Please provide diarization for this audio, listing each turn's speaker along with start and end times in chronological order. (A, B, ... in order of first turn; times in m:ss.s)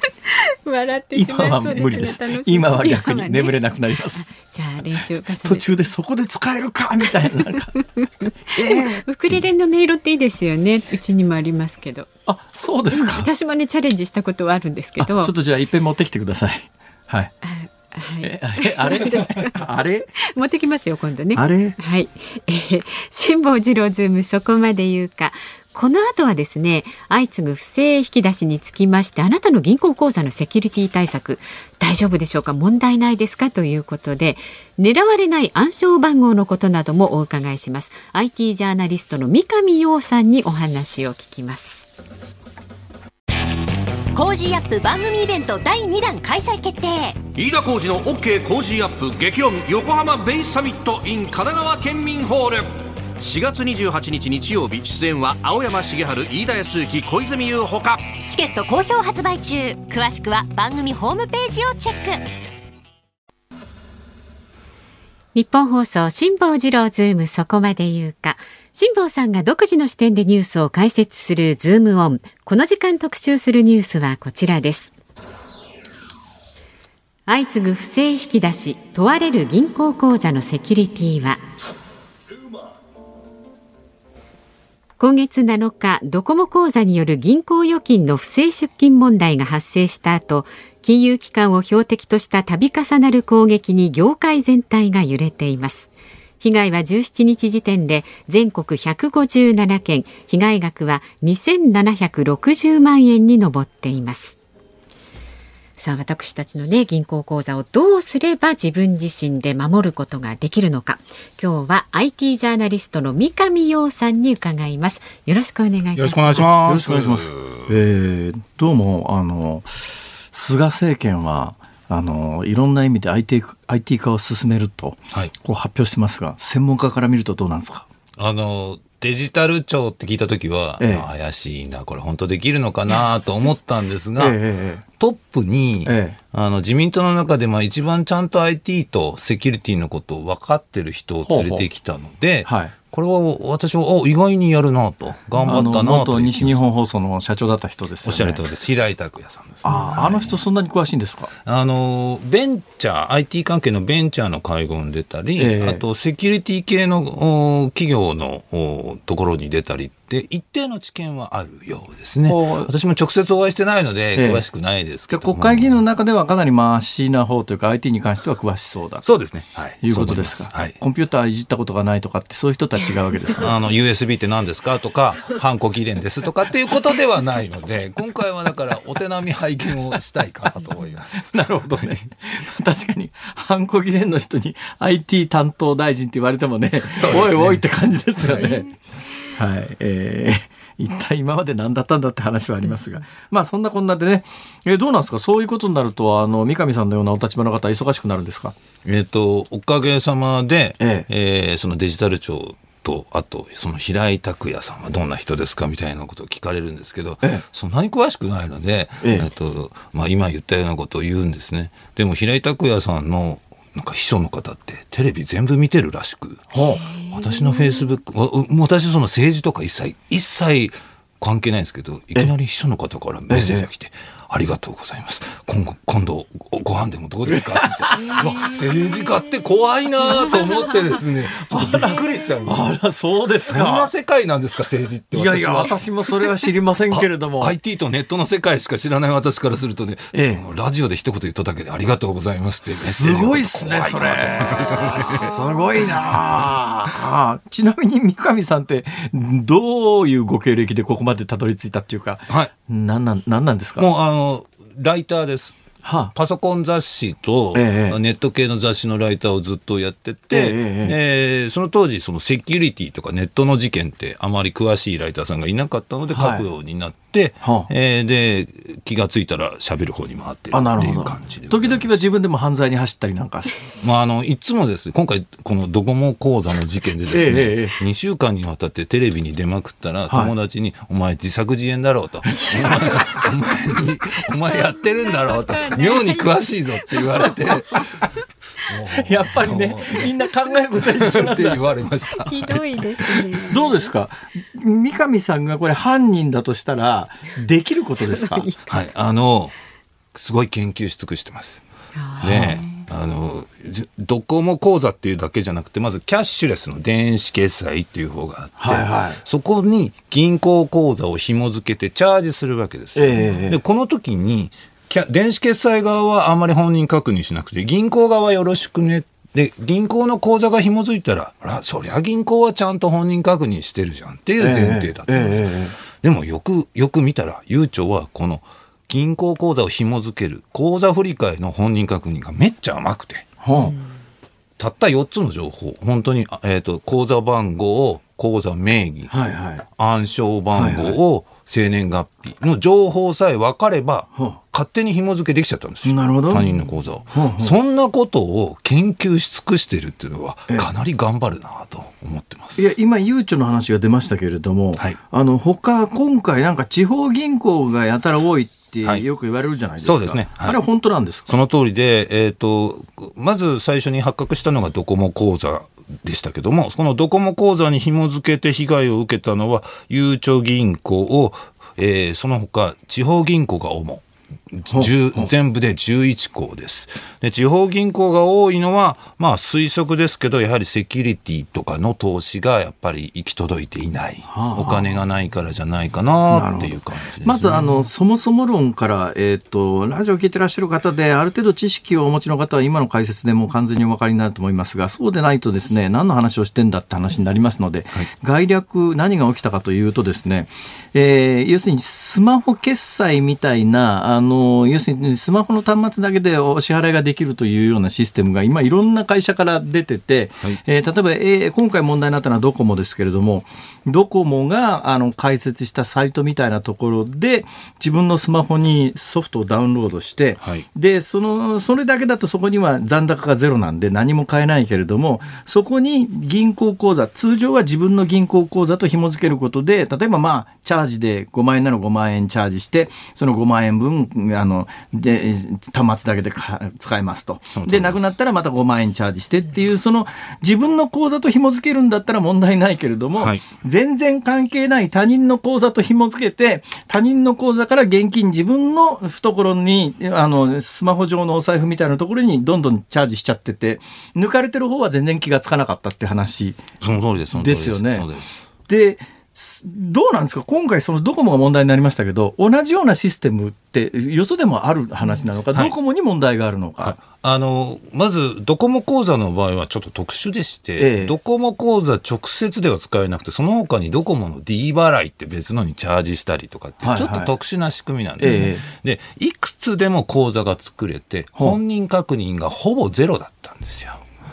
0:00.2-0:03.6 A
0:01.1-0:04.3 B
0:04.2-0:05.7 A
0:05.4-0:07.7 B
0:08.0-0:12.1 A
0:08.5-0:09.1 B
0:12.3-0:13.3 B
0:12.9-0:15.3 A
0:15.0-0:17.3 B
0:17.4-0:19.6 A
0:18.2-0:20.1 B
0:20.2-0:41.9 A
0:21.4-0:21.8 B
0:44.1-0:47.2 C
0:47.3-0:58.1 D
0:58.3-1:02.2 C
1:05.4-1:14.9 A
1:17.3-1:21.4 A
1:25.0-1:44.4 A
1:45.8-1:56.5 A
1:56.0-1:57.7 E
1:56.4-2:07.9 B
2:08.2-2:14.4 E
2:10.8-2:11.1 B
2:14.2-2:14.8 B
2:15.0-2:26.6 E
2:15.8-2:16.2 B
2:21.3-2:21.6 B
2:22.4-2:22.7 B
2:25.4-2:28.4 B
2:28.0-2:30.4 E
2:29.6-2:31.3 B
2:31.4-2:45.8 E
2:35.4-2:35.8 B
2:42.3-2:42.7 B
2:44.2-2:44.4 B
2:45.1-2:49.1 B
2:49.0-2:50.8 E
2:49.8-2:53.5 B
2:53.4-3:02.0 E
3:01.1-3:08.7 B
3:06.9-3:07.6 E
3:09.3-3:18.6 B
3:18.8-3:36.5 E
3:20.8-3:21.1 B
3:29.0-3:29.3 B
3:36.5-3:36.8 B
3:36.7-3:37.9 A
3:37.1-3:52.8 E
3:43.3-3:43.7 B
3:47.3-3:48.5 B
3:48.0-3:48.7 A
3:51.4-3:53.9 B
3:53.5-3:55.8 E
3:55.1-3:57.6 B
3:56.9-4:05.4 E
4:00.1-4:00.4 B
4:02.8-4:13.9 B
4:05.9-4:06.2 E
4:13.8-4:15.6 E
4:15.8-4:16.1 B
4:16.1-4:32.0 E
4:17.5-4:18.0 B
4:20.3-4:21.0 B
4:26.1-4:26.4 B
4:27.4-4:27.7 B
4:30.5-4:33.6 B
4:33.8-4:48.1 E
4:37.0-4:37.8 B
4:40.1-4:40.3 B
4:44.8-4:47.8 A
4:48.6-4:50.2 E
4:49.0-4:51.6 B
4:50.8-4:53.5 E
4:52.1-4:53.8 A
4:53.5-4:58.5 B
4:58.1-4:58.8 A
4:58.7-4:59.6 E
5:00.1-5:01.6 E
5:02.0-5:02.9 A
5:02.2-5:33.3 E
5:08.6-5:09.2 B
5:13.0-5:13.6 B
5:24.4-5:25.8 B
5:33.4-5:33.8 B
5:34.6-5:39.1 E
5:39.1-5:39.7 B
5:39.8-5:52.7 E
5:40.5-5:41.0 B
5:45.8-5:47.6 B
5:52.6-6:01.3 B
5:59.8-6:00.6 E
6:01.3-6:27.8 E
6:14.7-6:15.3 B
6:24.3-6:25.0 B
6:26.3-7:36.6 B
7:17.5-7:18.2 E
7:23.2-7:23.4 E
7:36.8-7:38.4 E
7:37.3-7:38.1 B
7:38.7-7:47.0 B
7:46.8-8:04.0 E
7:50.8-7:51.2 B
7:56.8-7:57.3 B
7:58.2-7:58.6 B